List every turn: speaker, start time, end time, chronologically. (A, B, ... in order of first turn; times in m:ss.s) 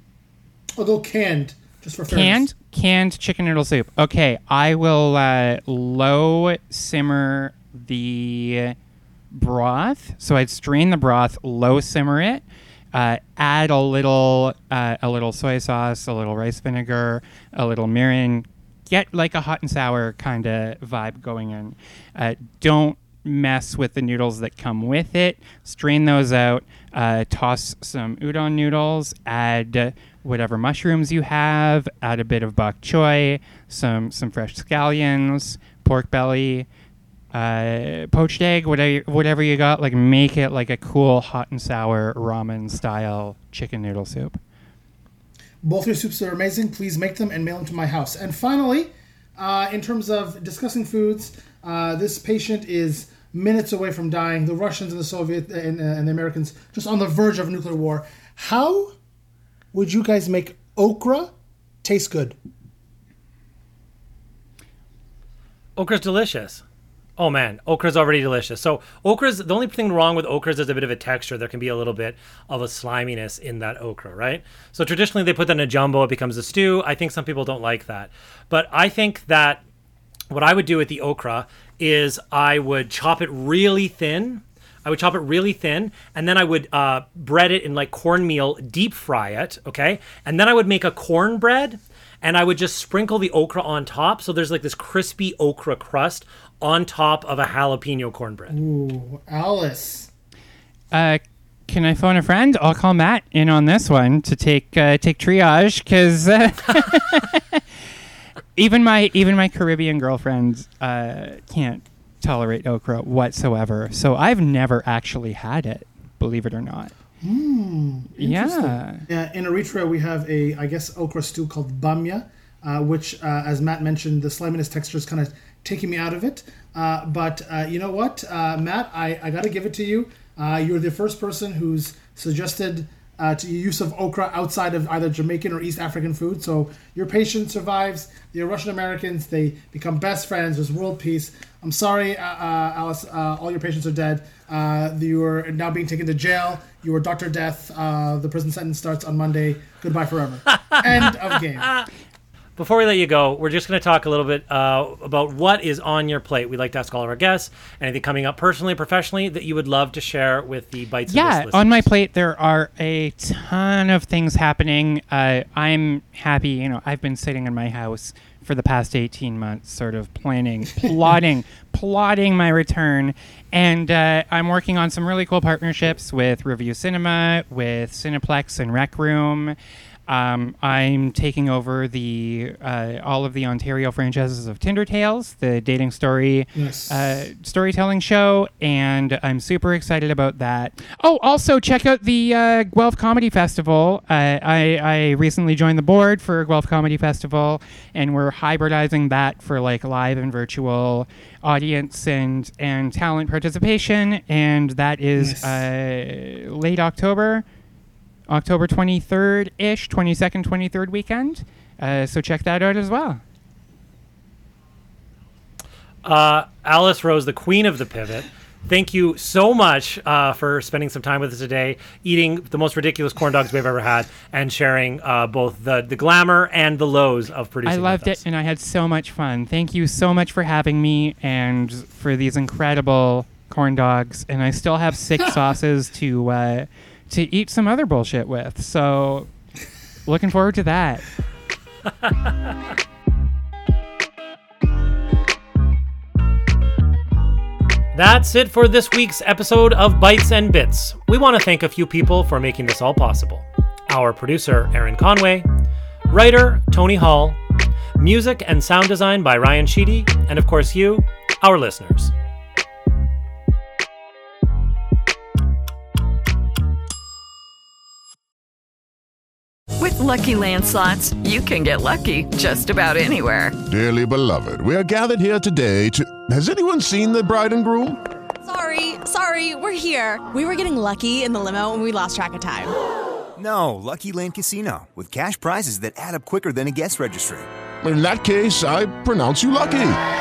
0:00.8-0:02.5 A
0:02.1-0:08.8 B
0:09.3-0:36.7 B
0:37.3-0:44.4 B
0:45.6-0:59.0 A
0:59.7-1:01.3 A
1:01.8-1:02.4 A
1:05.8-1:06.6 C
1:07.2-1:19.6 C
1:20.3-1:38.6 C
1:38.5-1:40.1 A
1:40.9-1:47.6 B
1:48.6-1:56.9 B
1:57.2-2:31.7 A
1:58.2-1:59.1 B
2:31.6-2:31.9 C
2:32.6-2:41.9 C
2:41.1-2:59.6 B
3:00.1-3:27.4 B
3:06.6-3:07.3 A
3:25.2-3:25.7 A
3:28.3-3:33.2 B
3:36.0-3:48.2 C
3:47.7-3:59.3 B
4:00.1-4:01.1 B
4:07.9-4:15.5 C
4:16.1-4:17.4 C
4:18.0-4:22.1 C
4:29.8-4:33.6 D
4:33.7-4:38.0 E
4:38.4-4:42.8 F
4:43.4-4:47.5 G
4:47.8-4:50.0 E